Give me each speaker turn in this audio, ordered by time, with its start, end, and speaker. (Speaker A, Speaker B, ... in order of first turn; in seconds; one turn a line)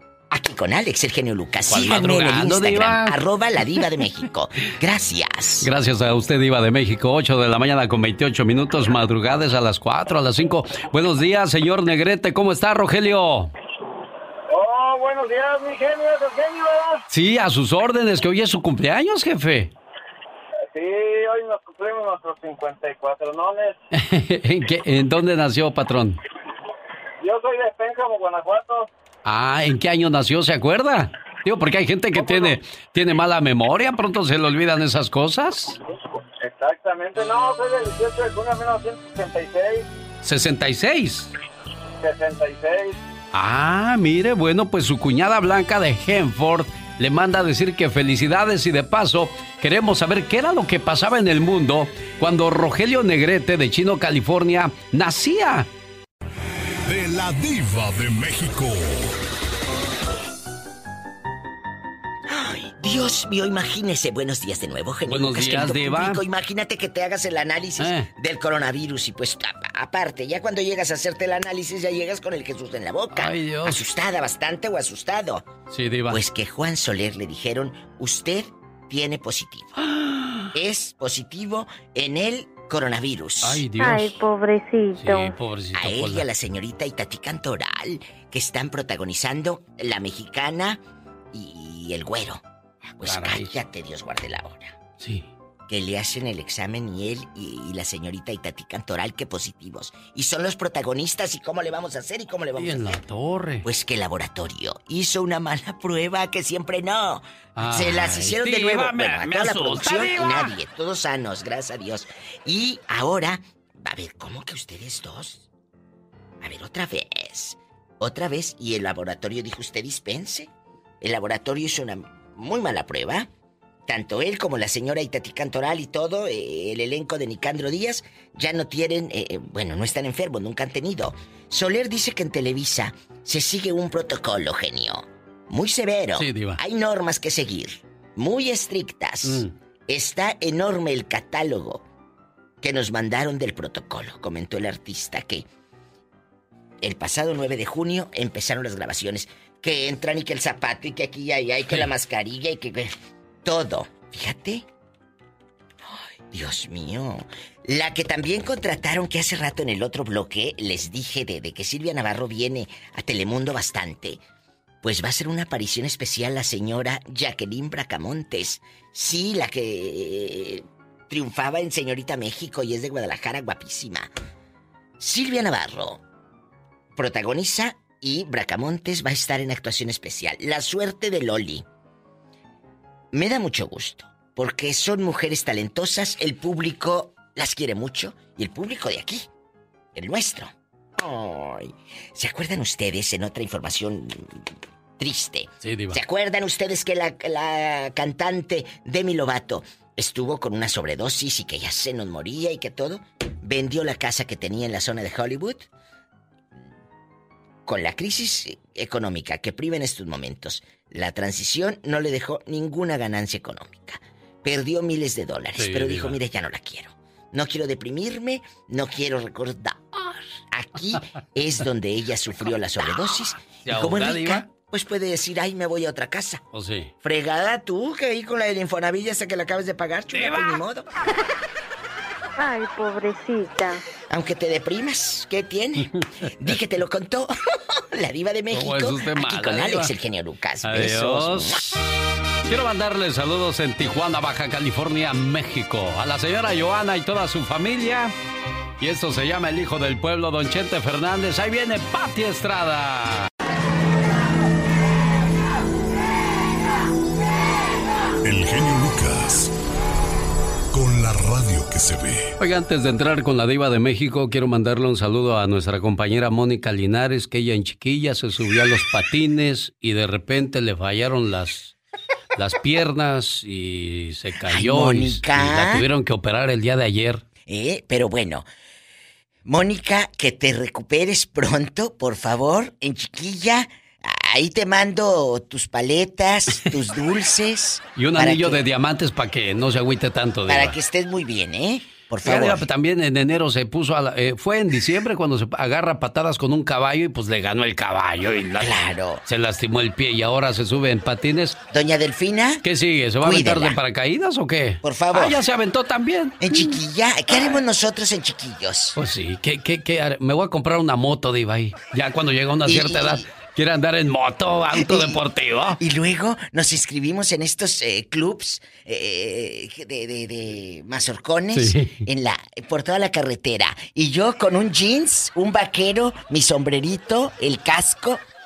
Speaker A: 0.3-5.7
Speaker B: 1.7-3.2
Speaker B: 5.6-13.5
Speaker C: 14.5-16.9
Speaker B: 17.1-19.7
Speaker C: 20.8-23.7
Speaker B: 23.9-26.2
Speaker C: 27.2-28.9
Speaker B: 29.2-35.8
Speaker C: 36.5-39.8
Speaker B: 40.2-41.3
Speaker C: 42.0-42.8
Speaker B: 43.3-55.7
Speaker D: 56.9-59.1
Speaker A: 62.3-75.5
Speaker B: 65.1-66.2
Speaker B: 67.8-68.1
Speaker B: 73.1-73.8
Speaker B: 75.7-76.2
Speaker A: 76.1-79.7
Speaker B: 79.8-80.5
Speaker A: 80.5-83.7
Speaker B: 83.4-84.2
Speaker E: 83.8-85.3
Speaker B: 85.0-86.3
Speaker A: 85.7-90.8
Speaker A: 91.3-92.4
Speaker A: 93.0-94.8
Speaker B: 93.0-93.6
Speaker B: 95.0-95.3
Speaker A: 95.7-103.0
Speaker B: 102.6-103.7
Speaker A: 103.6-115.5
Speaker B: 107.6-110.5
Speaker A: 116.4-120.5
Speaker A: 121.0-123.3
Speaker A: 123.9-141.8
Speaker B: 136.2-136.6
Speaker B: 139.2-139.5
Speaker A: 142.6-145.4
Speaker A: 146.8-152.9
Speaker A: 153.4-154.6
Speaker A: 156.3-164.2
Speaker A: 164.8-174.1
Speaker A: 175.0-176.0
Speaker A: 177.0-181.6
Speaker A: 183.1-189.2
Speaker A: 189.9-194.3
Speaker A: 195.0-205.7
Speaker B: 195.6-196.0
Speaker A: 207.7-226.4
Speaker B: 215.6-216.2
Speaker B: 223.7-224.5
Speaker B: 226.5-226.9
Speaker A: 227.0-230.9
Speaker B: 230.1-230.6
Speaker E: 232.4-233.8
Speaker A: 234.1-235.9
Speaker B: 236.0-236.5
Speaker A: 236.4-237.3
Speaker A: 237.9-241.7
Speaker B: 238.5-239.9
Speaker B: 240.6-241.9
Speaker B: 242.5-248.1
Speaker B: 248.8-253.3
Speaker D: 258.2-259.5
Speaker D: 260.7-262.3
Speaker B: 262.4-271.7
Speaker B: 272.4-277.2
Speaker A: 274.4-275.9
Speaker A: 277.5-278.4
Speaker A: 279.5-288.6
Speaker B: 288.0-290.8
Speaker A: 290.5-292.7
Speaker B: 292.2-301.6
Speaker A: 298.6-299.2
Speaker A: 301.7-302.6
Speaker B: 302.6-306.4
Speaker A: 303.2-303.8
Speaker A: 304.8-305.4
Speaker A: 306.4-309.0
Speaker B: 309.0-315.8
Speaker A: 312.7-313.3
Speaker A: 314.7-315.2
Speaker A: 315.8-328.2
Speaker B: 321.5-322.0